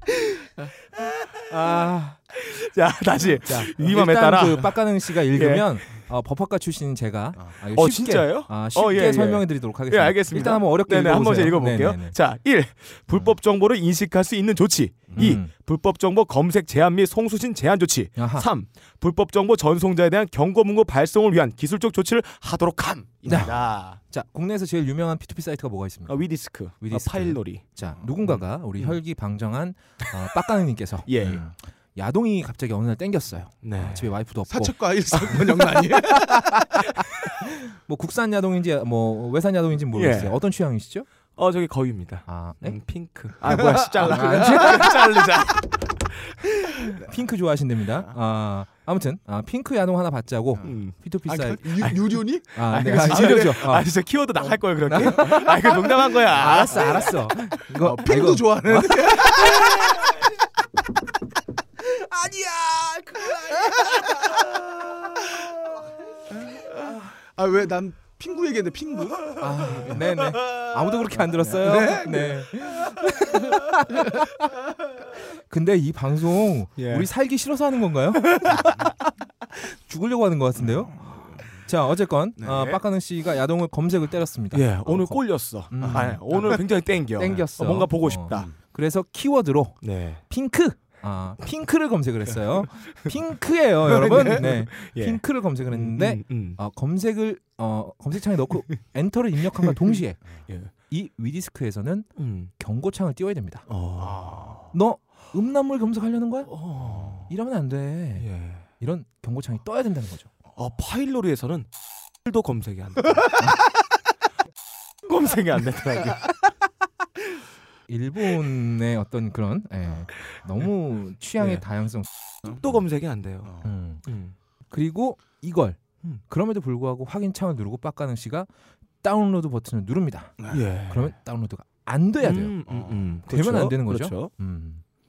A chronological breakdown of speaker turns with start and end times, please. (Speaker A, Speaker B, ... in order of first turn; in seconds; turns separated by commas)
Speaker A: 1.5-2.2, Speaker B: 2.3-4.8, Speaker A: 3.4-12.2, Speaker B: 5.3-5.7, Speaker B: 7.7-24.0, Speaker C: 15.1-15.4, Speaker A: 15.2-15.5, Speaker A: 18.2-18.5, Speaker A: 23.2-26.3, Speaker B: 26.1-27.6, Speaker A: 26.8-41.1, Speaker B: 28.2-29.0, Speaker B: 31.1-31.4, Speaker B: 33.6-34.1, Speaker C: 34.5-36.6, Speaker B: 39.9-40.4, Speaker B: 41.4-45.9, Speaker A: 42.3-42.8, Speaker C: 43.5-45.0, Speaker A: 43.5-45.2, Speaker A: 46.8-52.0, Speaker B: 50.6-51.0, Speaker C: 51.2-53.6, Speaker A: 52.5-53.9, Speaker B: 52.5-57.1, Speaker A: 54.9-59.6, Speaker C: 55.2-55.7, Speaker C: 56.7-57.1, Speaker C: 57.7-60.1, Speaker C: 62.0-65.5, Speaker C: 67.3-70.1, Speaker A: 69.4-74.5, Speaker C: 71.3-72.5, Speaker A: 75.3-78.8, Speaker B: 76.8-77.1, Speaker B: 78.4-78.7, Speaker A: 79.6-103.6, Speaker C: 80.6-81.5, Speaker B: 82.5-82.8, Speaker B: 84.5-88.5, Speaker C: 85.8-86.1, Speaker B: 89.8-90.2, Speaker B: 93.8-96.6, Speaker B: 102.2-102.5, Speaker B: 103.7-104.7, Speaker C: 104.0-104.6, Speaker A: 104.7-110.3, Speaker B: 106.5-107.3, Speaker B: 108.2-108.6, Speaker B: 110.5-111.7, Speaker B: 112.2-113.4, Speaker B: 115.0-116.3, Speaker A: 117.9-122.1, Speaker B: 121.4-121.6, Speaker B: 122.4-124.3, Speaker A: 123.6-124.0, Speaker A: 124.7-128.5, Speaker A: 129.0-132.6, Speaker B: 130.5-131.1, Speaker B: 132.2-134.3, Speaker C: 132.7-133.0, Speaker A: 133.2-134.8